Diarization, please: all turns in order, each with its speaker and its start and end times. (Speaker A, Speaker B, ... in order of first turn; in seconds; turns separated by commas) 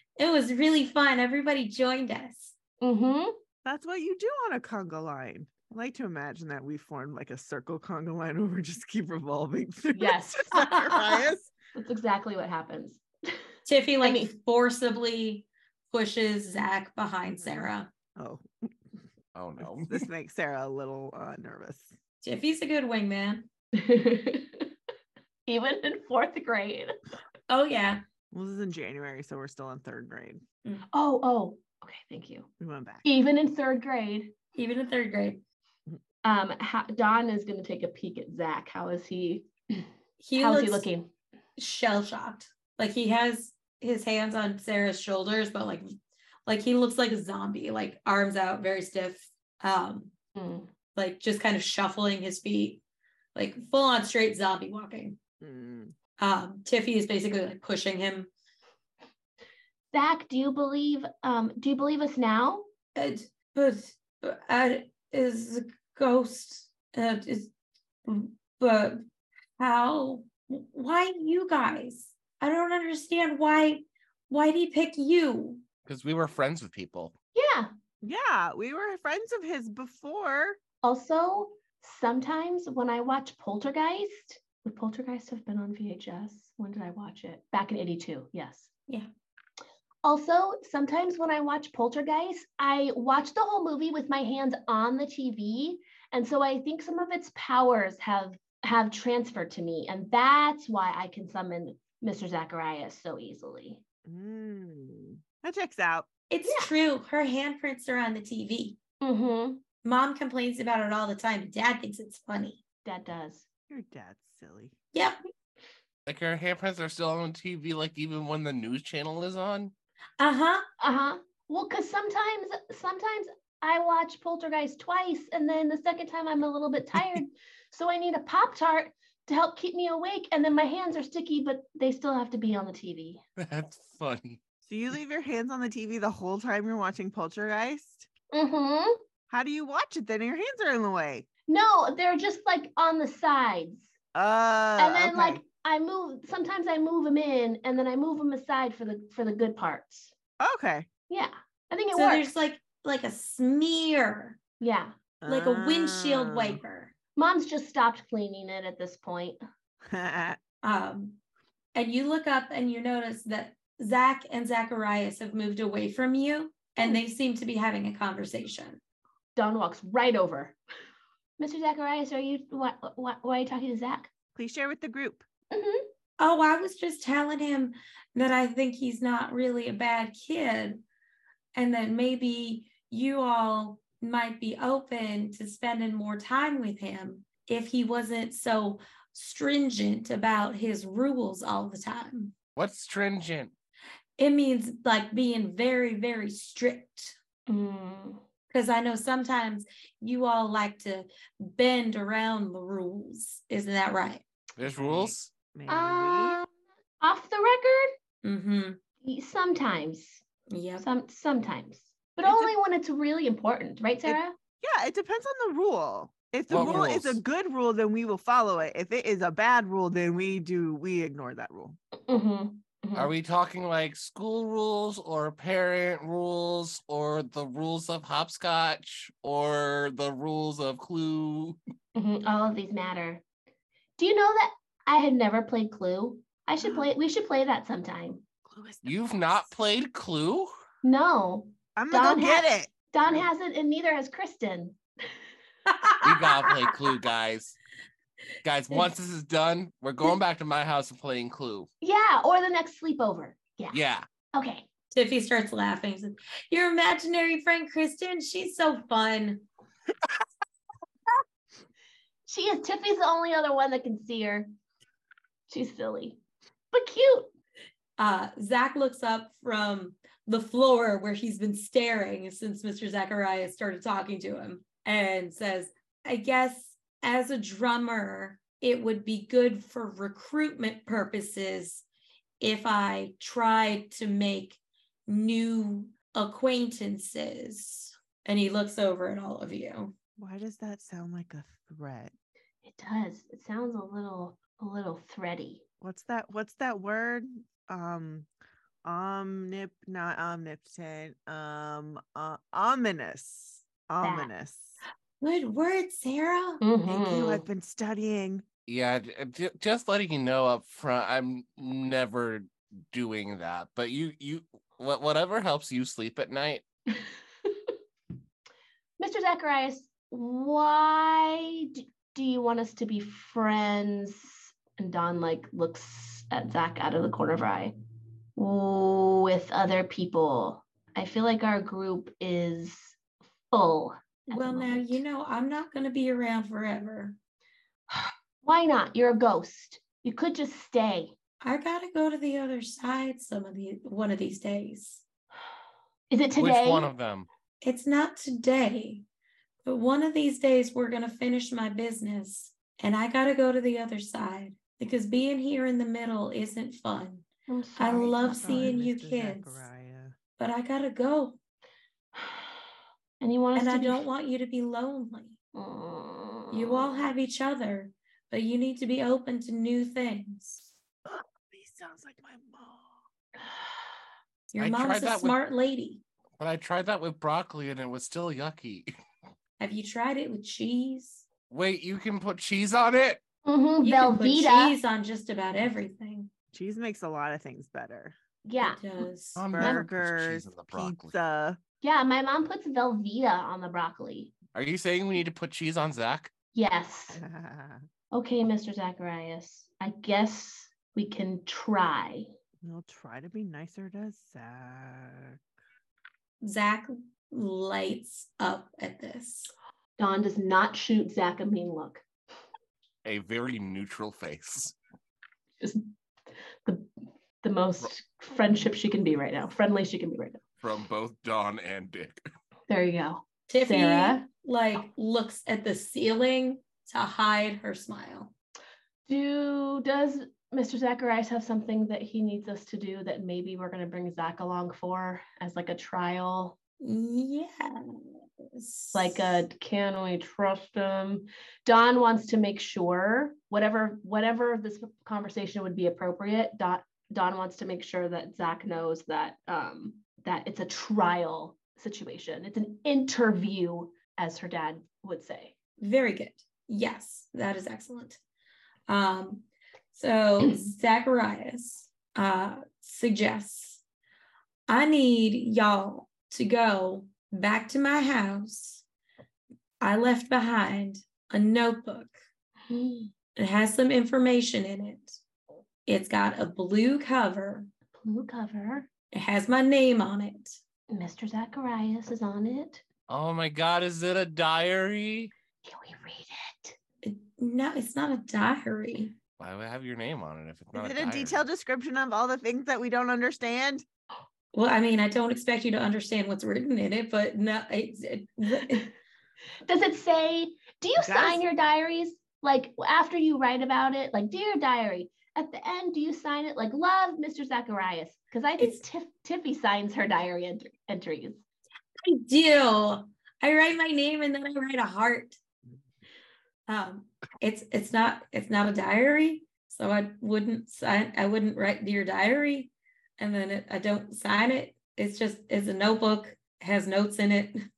Speaker A: 0.2-2.6, Speaker B: 2.8-3.4, Speaker C: 3.6-11.5, Speaker B: 9.9-10.7, Speaker A: 10.5-11.0, Speaker B: 11.8-13.4, Speaker A: 13.7-17.9, Speaker B: 14.0-14.3, Speaker C: 17.3-18.7, Speaker D: 19.3-20.1, Speaker C: 19.6-21.9, Speaker A: 22.2-23.5, Speaker B: 23.8-24.7, Speaker B: 25.4-26.9, Speaker A: 27.5-28.0, Speaker C: 28.3-30.4, Speaker B: 30.9-32.5, Speaker C: 32.6-33.1, Speaker B: 33.0-34.4, Speaker A: 34.5-35.4, Speaker B: 36.2-41.1, Speaker A: 40.2-40.9, Speaker A: 41.6-45.9, Speaker A: 46.5-50.1, Speaker B: 50.4-50.7, Speaker A: 50.9-52.8, Speaker A: 53.3-55.2, Speaker C: 55.4-55.9, Speaker A: 56.2-58.3, Speaker B: 59.9-62.7, Speaker A: 62.9-67.5, Speaker A: 68.1-69.0, Speaker A: 69.6-75.6, Speaker D: 75.8-77.2, Speaker B: 77.3-77.7, Speaker C: 78.0-80.6, Speaker B: 80.8-88.7, Speaker B: 90.0-103.8, Speaker C: 104.1-106.1, Speaker A: 106.3-108.8, Speaker B: 106.4-106.7, Speaker B: 109.0-109.6, Speaker A: 109.8-112.6, Speaker B: 112.8-113.5, Speaker C: 113.7-114.8, Speaker A: 114.9-115.2, Speaker D: 116.1-119.7, Speaker A: 120.2-120.6, Speaker B: 120.8-133.2, Speaker D: 133.4-134.4, Speaker C: 134.7-138.1, Speaker B: 138.3-139.0, Speaker C: 139.3-141.3, Speaker B: 141.5-143.9, Speaker C: 144.1-145.4, Speaker B: 144.8-150.1, Speaker C: 150.4-150.9, Speaker B: 151.1-152.4, Speaker A: 151.9-154.4, Speaker B: 154.6-155.0, Speaker C: 155.2-156.6, Speaker A: 155.3-156.9, Speaker B: 157.2-159.4, Speaker C: 159.9-160.4, Speaker A: 160.6-161.2, Speaker A: 161.7-168.8, Speaker B: 169.3-170.6, Speaker B: 171.4-174.1, Speaker C: 174.3-175.2, Speaker B: 175.5-175.9, Speaker A: 176.2-180.8, Speaker A: 181.6-192.3, Speaker D: 192.6-193.5, Speaker A: 194.2-197.2, Speaker B: 197.5-198.2, Speaker A: 198.5-204.2, Speaker D: 204.6-205.3, Speaker C: 204.6-206.4, Speaker B: 205.7-206.5, Speaker B: 207.0-207.9, Speaker A: 208.2-208.8, Speaker B: 209.0-210.2, Speaker A: 210.5-210.9, Speaker B: 210.8-214.3, Speaker C: 212.2-212.6, Speaker C: 214.1-221.8, Speaker D: 216.5-217.2, Speaker B: 222.0-223.1, Speaker D: 222.9-231.6, Speaker B: 231.9-233.2, Speaker B: 234.0-238.2, Speaker C: 236.6-236.9, Speaker C: 238.4-239.6, Speaker D: 238.8-240.5, Speaker B: 240.8-244.8, Speaker C: 241.8-243.2, Speaker A: 245.7-246.5, Speaker D: 246.0-247.6, Speaker D: 248.4-251.7, Speaker B: 251.8-253.8, Speaker D: 253.7-254.1, Speaker B: 254.3-254.7, Speaker A: 254.9-259.4, Speaker B: 262.3-264.5, Speaker B: 265.5-266.2, Speaker B: 266.7-267.3, Speaker A: 268.0-281.8, Speaker A: 282.4-289.9, Speaker C: 290.2-292.1, Speaker B: 292.6-295.6, Speaker C: 295.8-298.3, Speaker C: 298.8-304.8, Speaker B: 304.0-304.3, Speaker A: 305.2-306.6, Speaker B: 306.6-307.4, Speaker C: 306.9-308.4, Speaker D: 308.7-316.6, Speaker B: 319.0-327.7, Speaker B: 328.4-332.9, Speaker B: 333.5-335.0, Speaker A: 334.3-337.2, Speaker B: 338.4-341.2, Speaker A: 341.4-345.0, Speaker B: 346.1-346.9, Speaker D: 346.4-347.3, Speaker A: 347.6-349.1, Speaker A: 349.6-359.7, Speaker B: 357.5-358.8, Speaker C: 357.9-360.1, Speaker A: 360.4-361.4, Speaker B: 362.2-362.4, Speaker B: 363.2-364.1, Speaker A: 363.6-365.3, Speaker B: 365.5-367.1, Speaker A: 366.5-370.7, Speaker C: 371.1-373.0, Speaker A: 374.5-376.0, Speaker D: 374.6-375.4, Speaker D: 376.4-378.9, Speaker A: 379.6-381.3, Speaker D: 381.5-383.2, Speaker B: 383.4-384.8, Speaker A: 383.8-386.3, Speaker C: 386.5-388.2, Speaker B: 388.4-389.0, Speaker A: 388.6-389.4, Speaker D: 389.4-391.1, Speaker C: 389.5-391.6, Speaker B: 389.6-389.8, Speaker B: 391.8-394.4, Speaker D: 394.5-396.3, Speaker B: 396.6-397.2, Speaker C: 397.1-397.9, Speaker B: 398.1-402.3, Speaker C: 402.6-405.4, Speaker A: 406.4-409.5, Speaker B: 410.0-412.1, Speaker D: 413.1-414.8, Speaker B: 415.6-415.9, Speaker B: 417.4-420.4, Speaker D: 420.6-422.2, Speaker B: 422.7-424.3, Speaker A: 423.5-428.3, Speaker B: 429.1-436.6, Speaker A: 436.8-438.0, Speaker A: 438.6-439.4, Speaker B: 438.9-455.6, Speaker A: 455.8-458.2, Speaker A: 458.9-463.8, Speaker A: 464.7-468.8, Speaker A: 469.8-472.1, Speaker B: 472.7-473.1, Speaker A: 473.4-475.2, Speaker A: 475.9-477.7, Speaker B: 477.9-478.9, Speaker A: 479.1-480.6, Speaker B: 480.9-482.8, Speaker D: 483.1-485.3, Speaker B: 485.6-486.8, Speaker A: 487.0-489.2, Speaker D: 489.4-491.4, Speaker C: 490.7-493.8, Speaker A: 494.5-498.9, Speaker B: 499.6-511.4, Speaker C: 501.0-501.4, Speaker A: 512.0-515.4, Speaker A: 516.7-527.6